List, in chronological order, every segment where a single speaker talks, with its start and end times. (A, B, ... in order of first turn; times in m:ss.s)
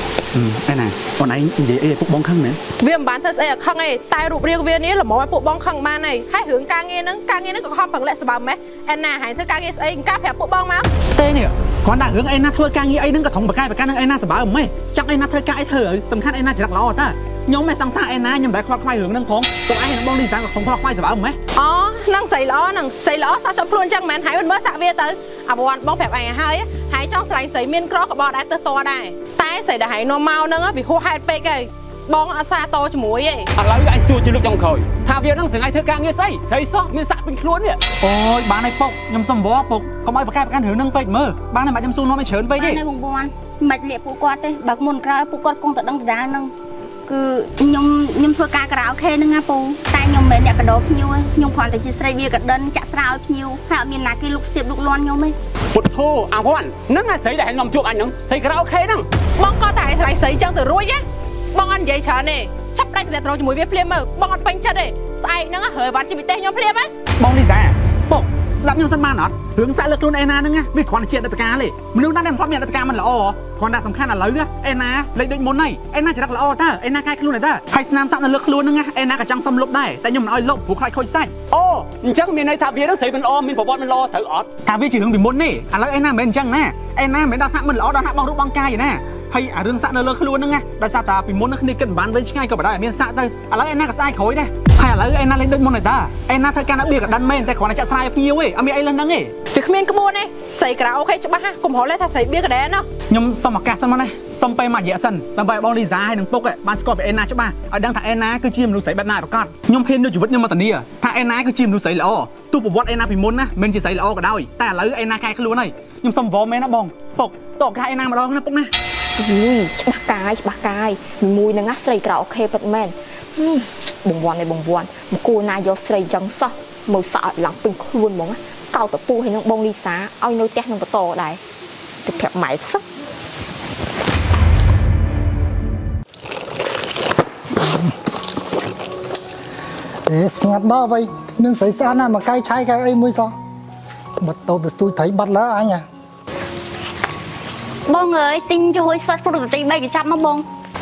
0:00.3-0:02.6 A
0:02.8-0:10.9 B
0:11.1-0:21.4 A
0:21.5-0:33.5 B
0:33.6-0:37.8 C
0:38.0-0:42.8 A
0:42.6-0:46.5 D
0:47.1-0:55.4 D
0:55.7-0:59.1 C
0:59.4-1:01.0 B
1:01.5-1:06.9 B
1:07.2-1:21.3 A
1:21.5-1:24.5 C
1:24.6-1:39.3 A
1:39.5-1:42.9 B
1:43.1-1:58.7 A
1:59.2-2:11.4 E
2:12.0-2:12.8 E
2:20.0-2:23.3 F
2:24.2-2:25.8 F
2:27.9-2:30.4 D